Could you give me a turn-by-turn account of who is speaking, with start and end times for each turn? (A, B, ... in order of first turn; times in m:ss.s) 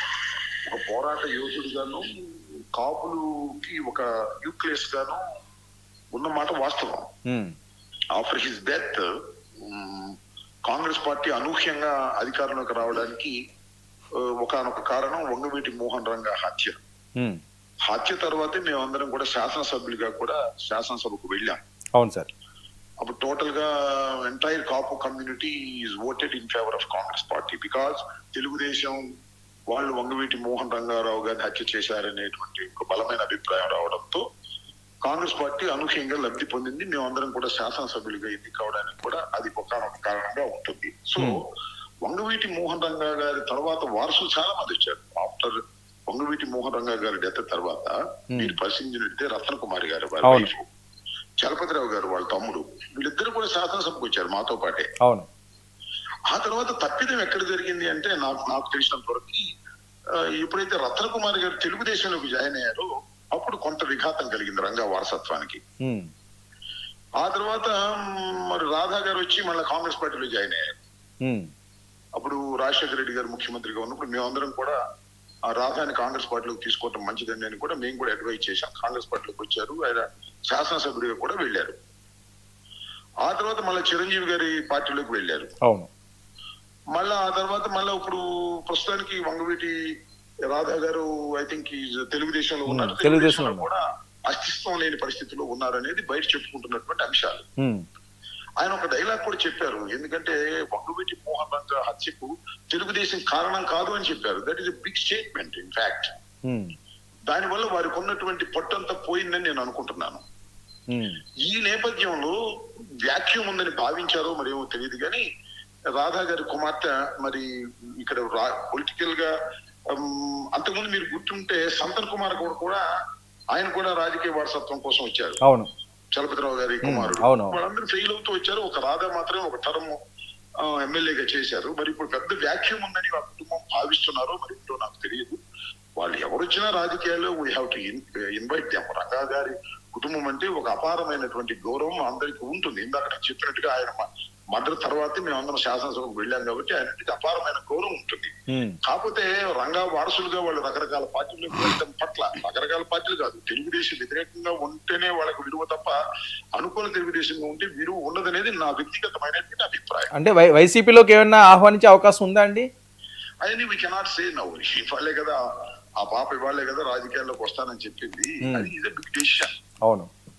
0:00.7-0:02.1 A
0:02.7-0:05.2 A
0:06.1-0:07.1 A
0:07.3-0:07.5 B
0:08.1-0:09.1 A
0:09.6-0:10.2 A
0:10.7-0:13.3 A
0:14.4-0:16.8 A
0:17.9-0:21.6 A
0:22.0-0:22.3 B
0:23.0-0:29.0 A
0:29.7-0:34.2 A
0:35.0-0:41.4 A
0:42.0-0:45.5 A
0:46.1-0:50.7 A
0:50.2-0:50.5 B
0:51.4-0:54.9 A
0:55.0-0:55.3 B
0:56.3-0:59.4 A
1:00.4-1:05.6 A
1:05.8-1:06.1 B
1:07.2-1:10.8 A
1:11.2-1:11.5 B
1:12.2-1:14.8 A
1:15.5-1:21.8 A
1:23.2-1:25.5 A
1:25.6-1:25.9 B
1:26.9-1:29.7 A
1:30.5-1:37.4 A
1:32.7-1:33.6 B
1:38.6-1:46.2 A
1:46.5-1:46.7 B
1:47.3-1:50.2 A
1:50.9-1:51.2 B
1:51.5-1:52.4 A
1:53.0-1:55.2 A
1:56.0-1:57.5 A
1:58.0-1:59.3 A
2:00.0-2:02.8 A
2:03.5-2:05.4 A
2:05.4-2:05.7 B
2:06.1-2:10.0 A
2:06.8-2:07.6 B
2:10.7-2:15.4 A
2:16.0-2:28.3 A
2:28.5-2:28.8 B
2:28.9-2:36.0 A
2:36.6-2:40.1 A
2:40.1-2:42.7 B
2:43.4-2:45.4 A
2:46.0-2:49.5 A
2:48.4-2:48.7 B